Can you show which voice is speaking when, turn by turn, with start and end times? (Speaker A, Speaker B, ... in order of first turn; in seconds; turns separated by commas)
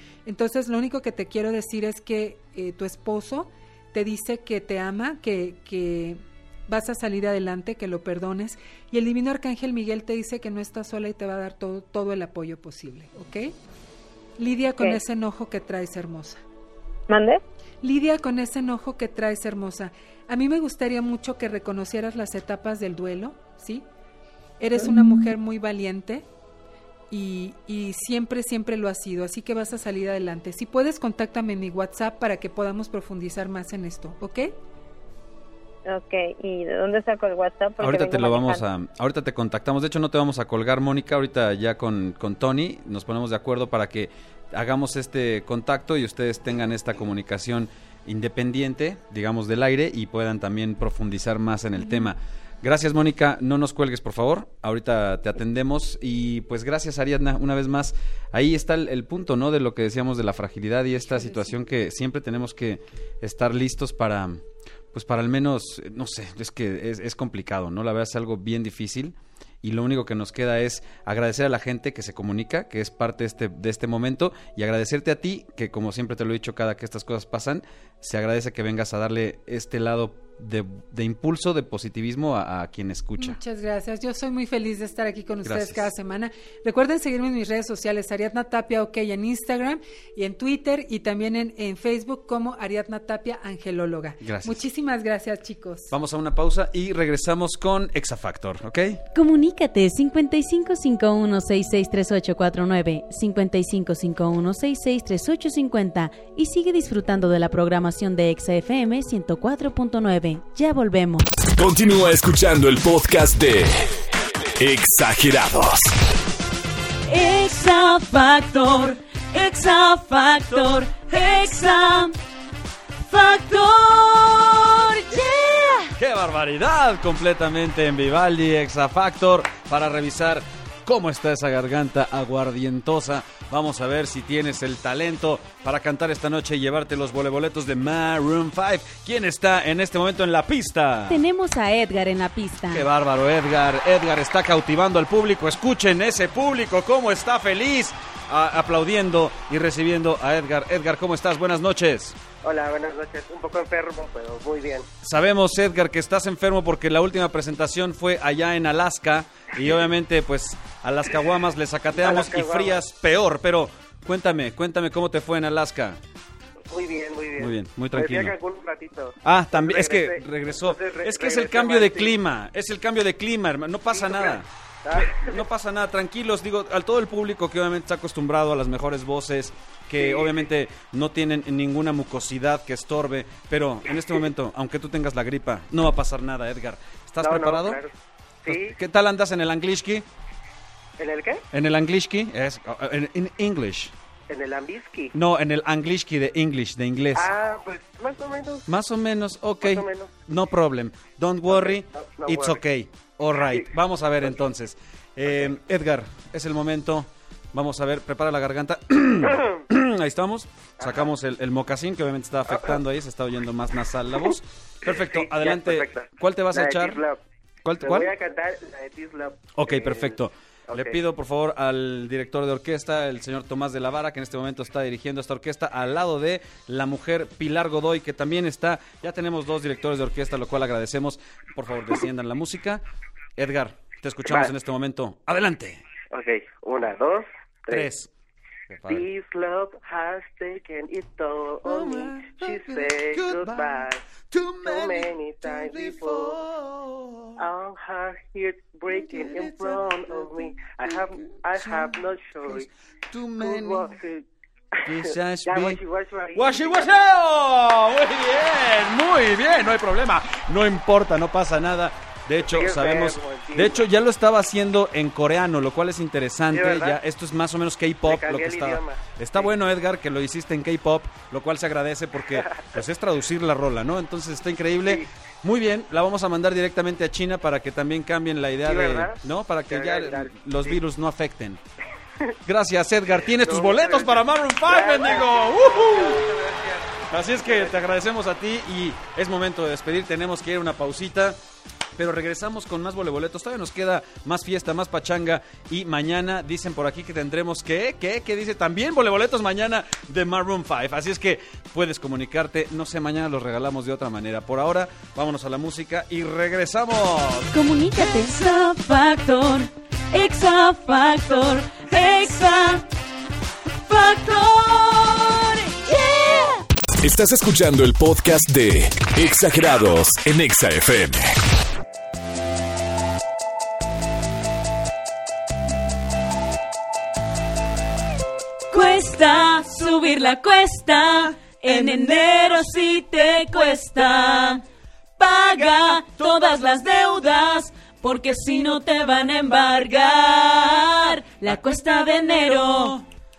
Speaker A: 0.3-13.5, Speaker A: 14.4-16.4, Speaker B: 17.1-17.4, Speaker A: 17.8-23.9, Speaker A: 24.6-26.3, Speaker A: 27.1-34.5, Speaker B: 35.9-38.6, Speaker C: 37.8-64.4, Speaker A: 61.0-61.6, Speaker C: 64.9-83.4, Speaker A: 83.2-95.9, Speaker C: 85.5-85.8, Speaker C: 94.2-94.6, Speaker C: 95.9-99.0, Speaker D: 99.1-111.3, Speaker E: 111.5-114.1, Speaker E: 114.6-116.0, Speaker D: 117.1-122.2, Speaker D: 123.0-125.9, Speaker C: 126.0-141.2, Speaker D: 141.1-142.9, Speaker C: 142.7-152.2, Speaker F: 152.4-154.9, Speaker C: 155.0-166.0, Speaker F: 162.0-162.8, Speaker F: 166.7-172.2, Speaker C: 167.4-168.4, Speaker C: 169.2-187.8, Speaker F: 173.9-175.4, Speaker F: 180.0-180.4, Speaker F: 187.2-187.9, Speaker F: 188.4-188.8, Speaker C: 188.4-190.1, Speaker F: 191.0-191.4, Speaker C: 191.5-193.9, Speaker F: 194.3-195.1, Speaker C: 195.1-197.3, Speaker F: 197.1-198.7, Speaker C: 198.7-217.0, Speaker F: 199.6-200.1, Speaker F: 201.5-202.6, Speaker F: 203.3-203.7, Speaker F: 210.8-211.1, Speaker F: 214.9-217.2, Speaker C: 217.6-218.2, Speaker F: 217.8-221.0, Speaker C: 219.6-232.8, Speaker C: 233.4-235.8, Speaker F: 236.1-237.9, Speaker C: 237.7-238.1, Speaker C: 238.7-239.1, Speaker F: 238.9-244.0, Speaker C: 241.7-247.4, Speaker F: 244.6-246.4, Speaker F: 247.4-252.7, Speaker C: 248.9-253.9, Speaker F: 253.4-254.2, Speaker C: 254.8-255.8, Speaker F: 254.8-256.9, Speaker C: 256.3-281.6, Speaker F: 262.4-263.9, Speaker F: 266.5-267.0, Speaker F: 268.1-269.5, Speaker F: 278.6-280.4, Speaker C: 282.5-286.3, Speaker F: 283.2-288.0, Speaker C: 287.1-291.4, Speaker C: 292.0-307.5, Speaker D: 307.5-312.9, Speaker D: 313.9-316.7, Speaker E: 317.0-321.4, Speaker D: 328.7-334.6, Speaker D: 335.2-343.0, Speaker C: 342.5-343.0